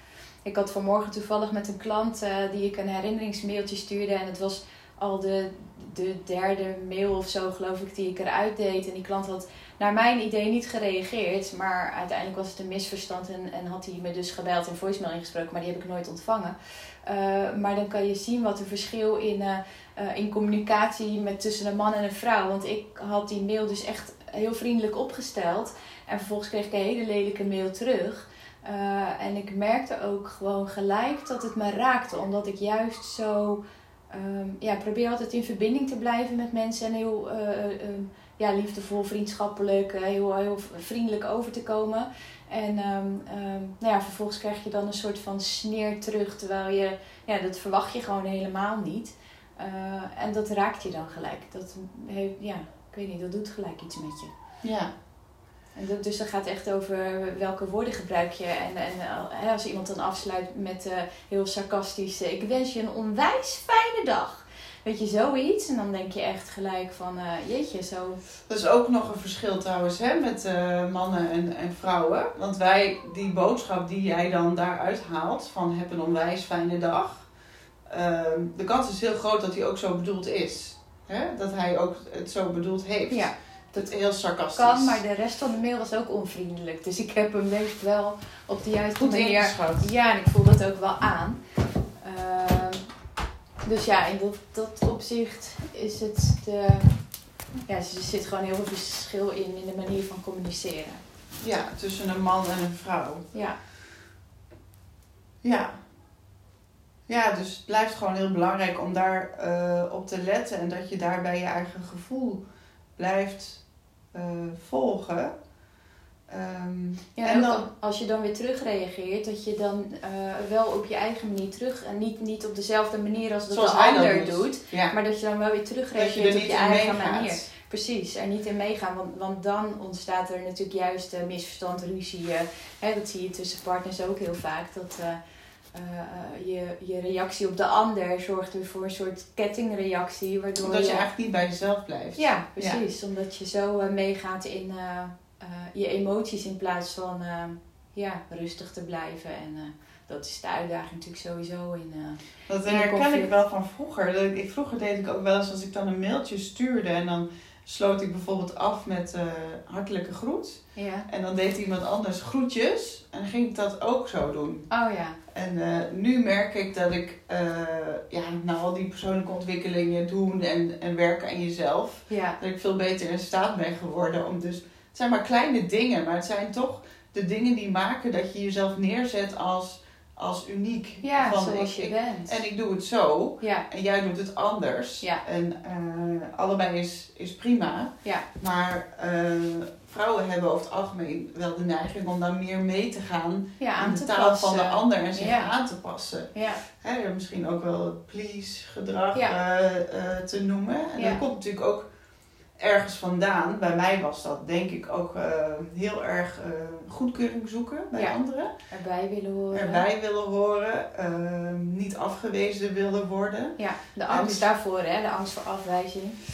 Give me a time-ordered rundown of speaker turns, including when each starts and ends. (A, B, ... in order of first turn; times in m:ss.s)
0:00.4-0:54.3 A
0:54.6-0:54.9 B
0:55.7-1:08.2 A
1:08.5-1:17.3 B
1:17.9-1:25.0 B
1:23.1-1:23.9 A
1:24.5-1:31.4 A
1:29.0-1:29.9 B
1:32.0-1:32.8 A
1:33.6-1:36.9 A
1:37.6-1:41.0 A
1:41.4-1:43.2 B
1:45.4-1:45.8 B
1:47.1-1:52.4 B
1:53.0-1:55.3 B
1:56.3-1:57.6 B
1:57.2-2:15.2 A
2:03.5-2:04.9 B
2:05.9-2:07.4 B
2:15.7-2:21.0 A
2:20.6-2:22.8 B
2:22.2-2:33.3 A
2:32.5-2:44.7 B
2:40.8-2:41.0 A
2:44.7-2:45.2 A
2:45.3-3:21.9 B
2:52.1-2:52.4 A
3:01.0-3:02.4 A
3:03.4-3:03.6 A
3:13.6-3:15.5 A
3:16.3-3:16.6 A
3:22.6-3:28.5 B
3:28.7-3:29.8 A
3:29.5-3:34.4 B
3:33.6-3:36.2 A